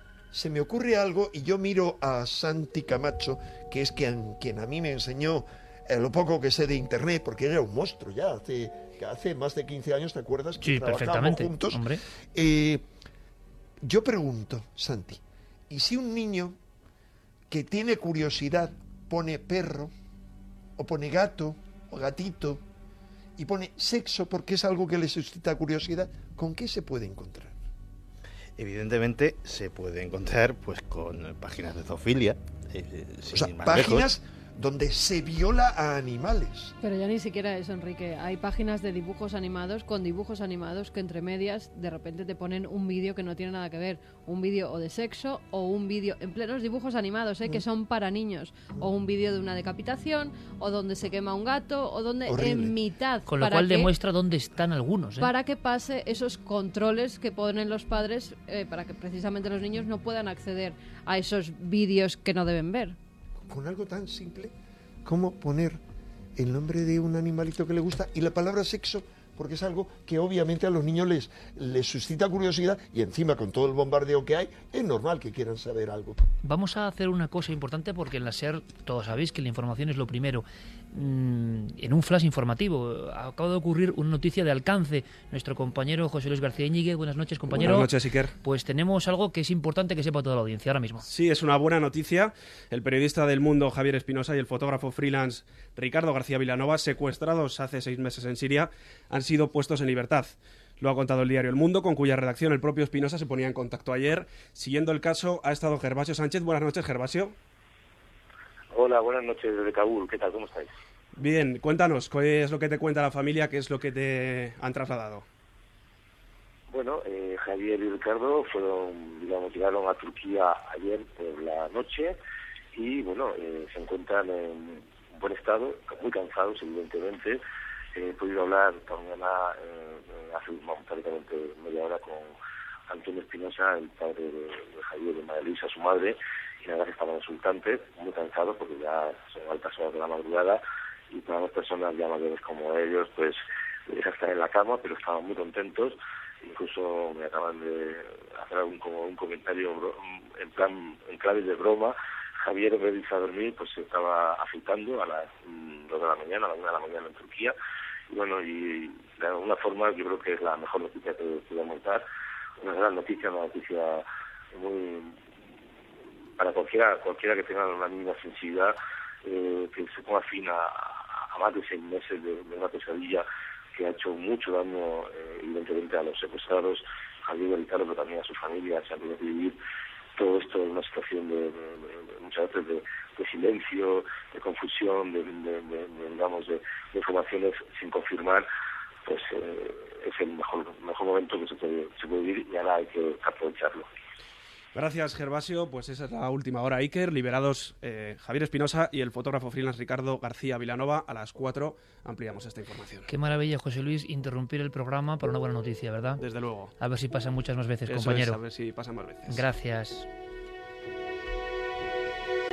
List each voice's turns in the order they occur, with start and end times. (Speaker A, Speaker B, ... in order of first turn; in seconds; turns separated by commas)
Speaker A: 0.3-11.8, Speaker B: 10.6-12.0, Speaker A: 12.3-12.8, Speaker A: 13.8-16.6, Speaker A: 17.5-19.9, Speaker A: 20.8-22.6, Speaker A: 23.4-27.6, Speaker C: 28.6-34.1, Speaker A: 33.3-36.7, Speaker D: 36.8-53.9, Speaker A: 52.2-52.7, Speaker B: 53.3-55.3, Speaker D: 55.2-63.0, Speaker A: 63.4-64.5, Speaker A: 65.0-65.8, Speaker A: 66.4-76.2, Speaker B: 76.4-91.0, Speaker E: 87.5-88.3, Speaker E: 91.0-107.3, Speaker F: 108.7-110.7, Speaker E: 111.2-115.2, Speaker F: 116.7-122.2, Speaker F: 122.7-127.4, Speaker F: 127.9-132.3, Speaker F: 132.9-151.9, Speaker F: 152.4-157.5, Speaker F: 158.1-162.0, Speaker F: 162.6-165.2, Speaker F: 166.4-168.7, Speaker F: 169.2-173.2, Speaker F: 173.8-179.6, Speaker F: 180.2-188.4, Speaker F: 189.1-193.9, Speaker E: 194.7-203.1, Speaker B: 203.1-206.2, Speaker E: 206.2-206.7, Speaker B: 206.8-208.4, Speaker E: 207.9-209.5, Speaker B: 209.3-210.1